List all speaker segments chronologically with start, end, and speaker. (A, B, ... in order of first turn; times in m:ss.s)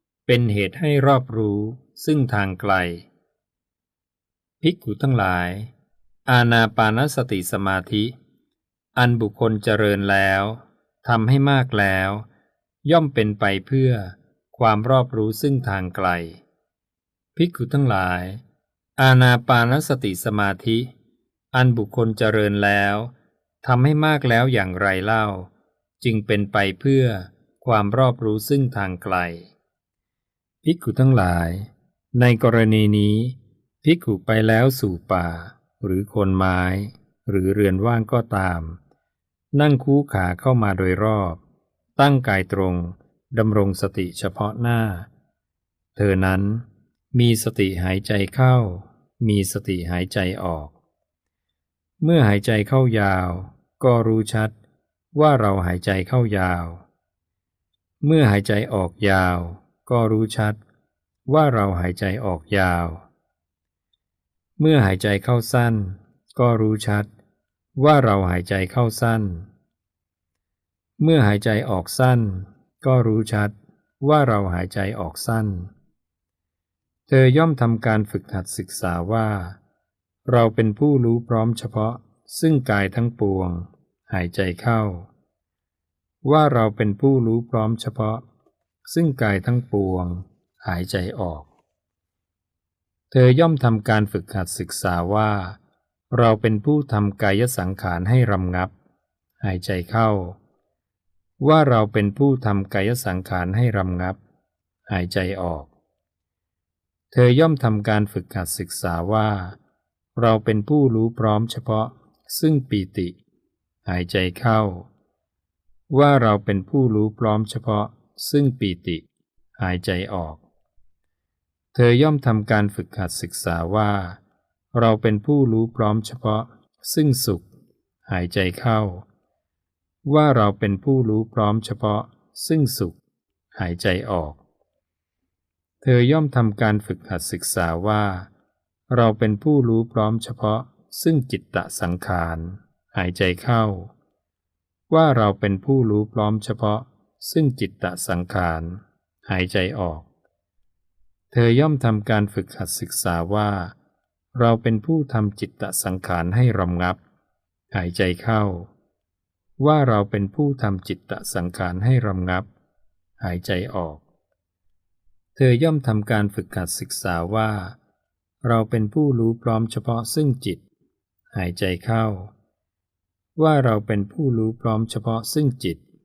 0:00.3-0:03.1 A
0:04.6-0:05.7 A
0:06.3-0:08.1 A
0:09.0-0:12.3 A
0:12.8-0:16.4 A
0:17.4-0:18.4 A
0:19.0-0:20.9 A
0:21.5-0:29.5 A
0:30.6-0:38.8 A
0:39.5-0:41.4 A
0:42.0-0:45.1 A
0:46.0-0:50.7 A
0:52.0-0:54.5 A
0:55.1-0:56.8 A
0:58.0-1:00.6 A
1:01.3-1:03.0 A
1:04.6-1:07.1 A
1:07.8-1:09.5 A
1:11.0-1:15.7 A
1:17.1-1:19.6 A
1:20.3-1:25.1 A
1:26.2-1:28.2 A
1:28.8-1:31.5 A
1:33.1-1:35.6 A
1:36.1-1:38.7 A
1:39.4-1:40.4 A
1:41.4-1:44.2 A
1:44.9-1:45.7 A
1:47.1-1:49.6 A
1:50.2-1:53.2 A
1:53.8-1:54.9 A
1:55.9-1:59.0 A
1:59.6-2:00.4 A
2:01.7-2:04.2 A
2:04.7-2:07.4 A
2:08.1-2:09.0 A
2:10.1-2:13.0 A
2:13.5-2:14.4 A
2:15.8-2:18.3 A
2:18.9-2:23.9 A
2:24.9-2:30.1 A
2:31.3-2:33.8 A
2:34.3-2:37.0 A
2:37.7-2:38.7 A
2:39.6-2:42.5 A
2:43.2-2:44.0 A
2:45.3-2:47.8 A
2:48.4-2:50.6 A
2:51.3-2:52.3 A
2:53.4-2:55.8 A